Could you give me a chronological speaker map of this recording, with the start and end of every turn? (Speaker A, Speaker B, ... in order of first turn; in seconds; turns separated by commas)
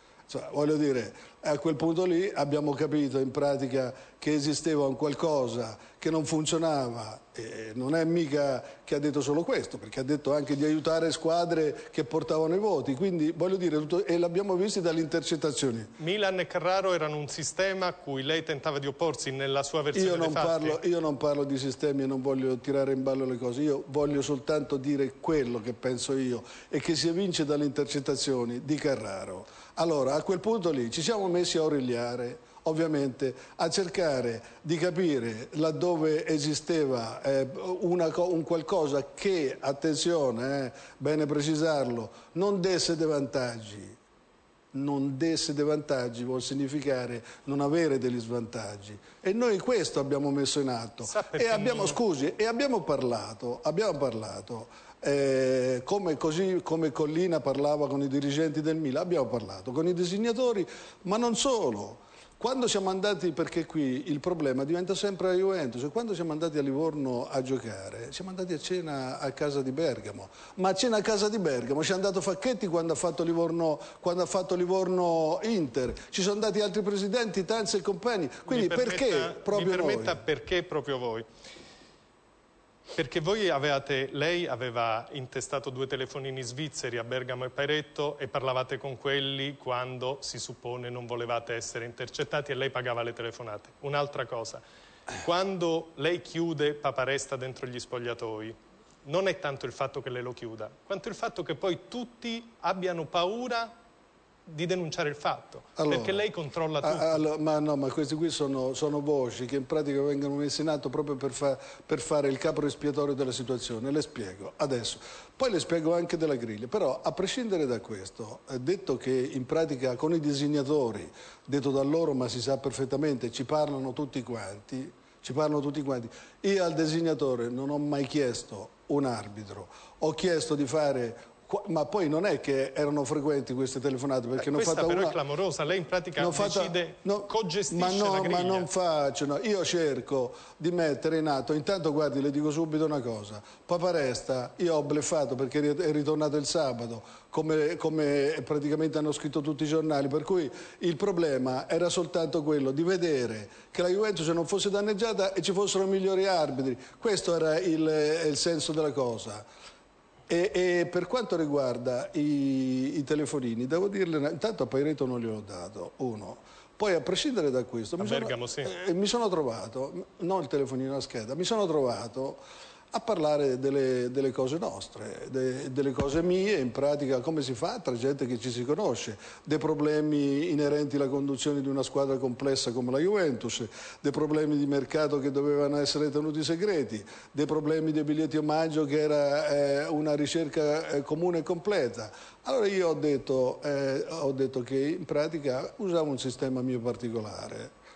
Speaker A: 0.3-15.9, Speaker B: 16.0-20.8, Speaker A: 19.9-44.0, Speaker A: 44.7-80.2, Speaker B: 51.0-52.0, Speaker B: 78.5-81.3, Speaker B: 83.0-94.6, Speaker B: 95.2-103.8, Speaker B: 104.5-107.2, Speaker A: 105.8-106.3, Speaker A: 106.8-135.2, Speaker B: 134.4-138.7, Speaker A: 136.2-159.4, Speaker A: 160.3-197.7, Speaker B: 168.0-168.7